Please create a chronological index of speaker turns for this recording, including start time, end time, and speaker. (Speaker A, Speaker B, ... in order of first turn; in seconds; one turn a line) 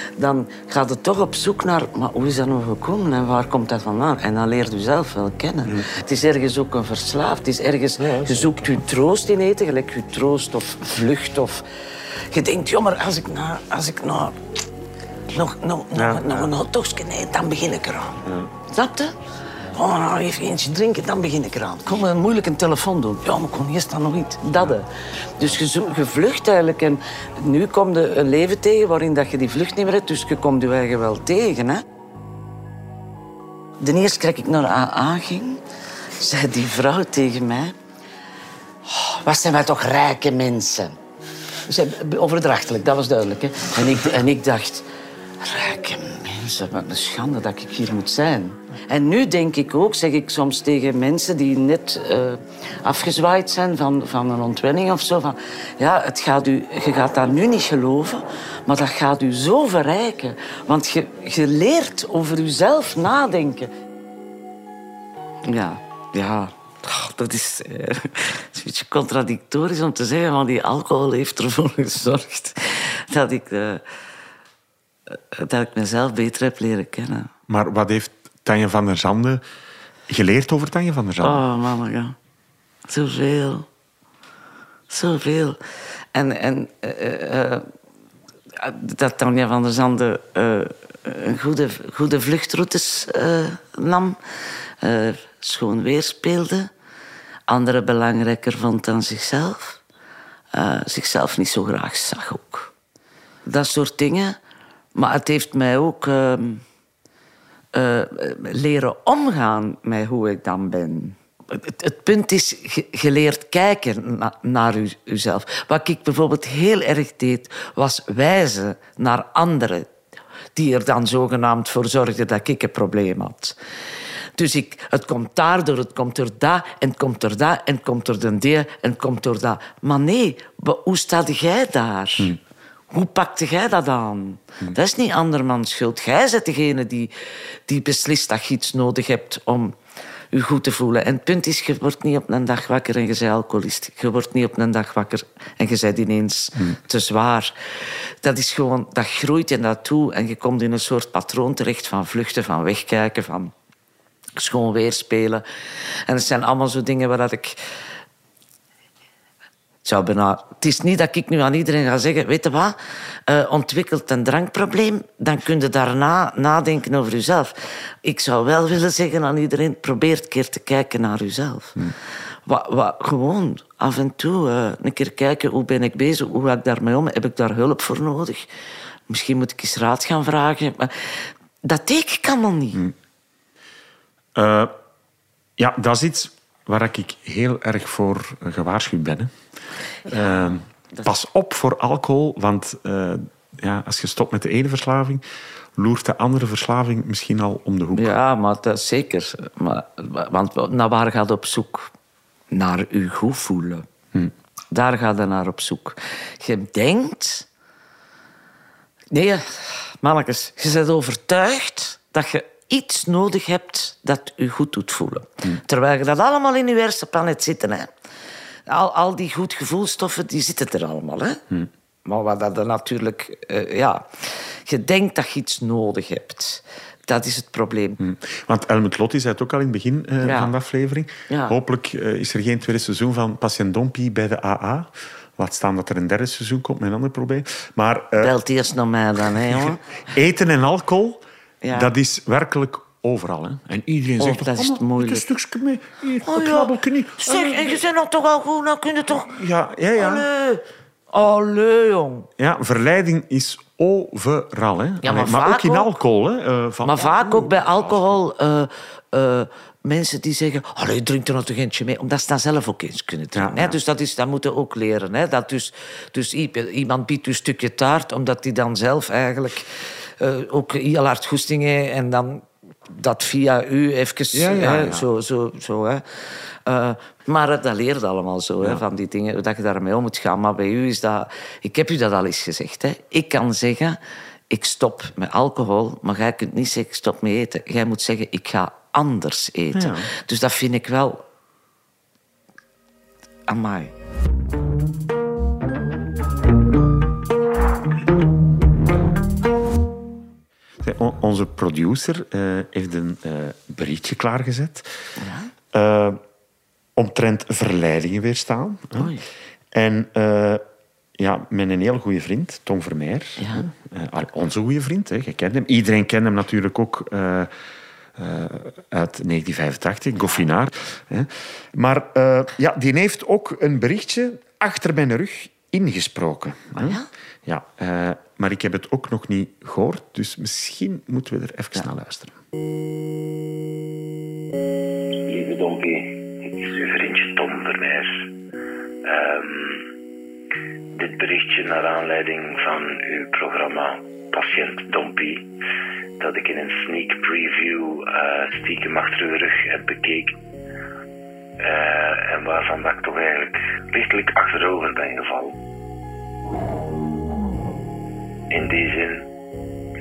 Speaker A: 0.2-11.6
Speaker B: 8.0-8.7
Speaker A: 12.3-14.4
Speaker A: 15.3-19.2
Speaker B: 15.9-16.5
Speaker B: 18.2-18.5
Speaker A: 19.7-31.8
Speaker A: 33.8-35.6
Speaker A: 36.2-37.8
Speaker A: 38.9-41.0
Speaker A: 41.7-44.9
Speaker A: 45.4-63.7
Speaker A: 65.5-73.8
Speaker A: 75.1-77.3
Speaker B: 77.5-79.4
Speaker B: 80.1-81.4
Speaker A: 81.2-82.2
Speaker A: 82.9-83.7
Speaker A: 84.9-85.6
Speaker A: 86.1-87.7
Speaker A: 88.6-94.2
Speaker A: 94.8-96.7
Speaker A: 97.5-99.8
Speaker A: 100.5-102.7
Speaker A: 103.5-104.4
Speaker A: 105.0-106.6
Speaker A: 107.7-119.9
Speaker A: 120.5-123.5
Speaker A: 124.4-132.3
Speaker A: 132.9-137.1
Speaker A: 137.7-139.8
Speaker A: 140.3-147.6
Speaker A: 148.2-153.5
Speaker A: 154.4-155.4
Speaker A: 156.1-157.6
Speaker A: 159.8-162.8
Speaker A: 163.3-167.5
Speaker A: 168.0-171.8
Speaker A: 172.5-178.5
Speaker A: 179.1-182.8
Speaker B: 184.3-184.7
Speaker B: 185.6-189.3
Speaker A: 190.1-191.1
Speaker B: 190.1-195.2
Speaker B: 195.8-198.2
Speaker A: 197.9-201.9
Speaker A: 202.5-203.9
Speaker A: 204.7-207.5
Speaker A: 209.1-217.9
Speaker A: 218.7-221.4
Speaker A: 222.1-228.0
Speaker B: 228.0-238.3
Speaker A: 230.2-230.5
Speaker A: 231.3-231.6
Speaker A: 238.2-239.8
Speaker B: 240.1-247.8
Speaker A: 241.6-241.9
Speaker A: 244.2-245.3
Speaker A: 246.2-249.4
Speaker B: 249.1-250.3
Speaker A: 250.0-252.3
Speaker B: 252.4-258.2
Speaker A: 255.0-255.9
Speaker A: 256.9-276.0
Speaker B: 263.3-263.8
Speaker B: 274.3-275.1
Speaker A: 276.7-284.0
Speaker A: 284.5-291.2
Speaker B: 289.7-290.1
Speaker A: 293.5-293.9
Speaker B: 300.8-304.9
Speaker A: 305.2-305.5
Speaker B: 305.7-306.2
Speaker B: 307.0-309.1
Speaker A: 309.0-309.2
Speaker B: 309.7-310.6
Speaker B: 311.2-317.5
Speaker A: 313.4-313.7
Speaker B: 318.2-332.4
Speaker A: 326.8-327.1
Speaker C: 335.2-338.3
Speaker C: 339.0-339.9
Speaker C: 340.9-345.5
Speaker C: 346.2-350.4
Speaker C: 351.6-355.6
Speaker C: 358.5-359.3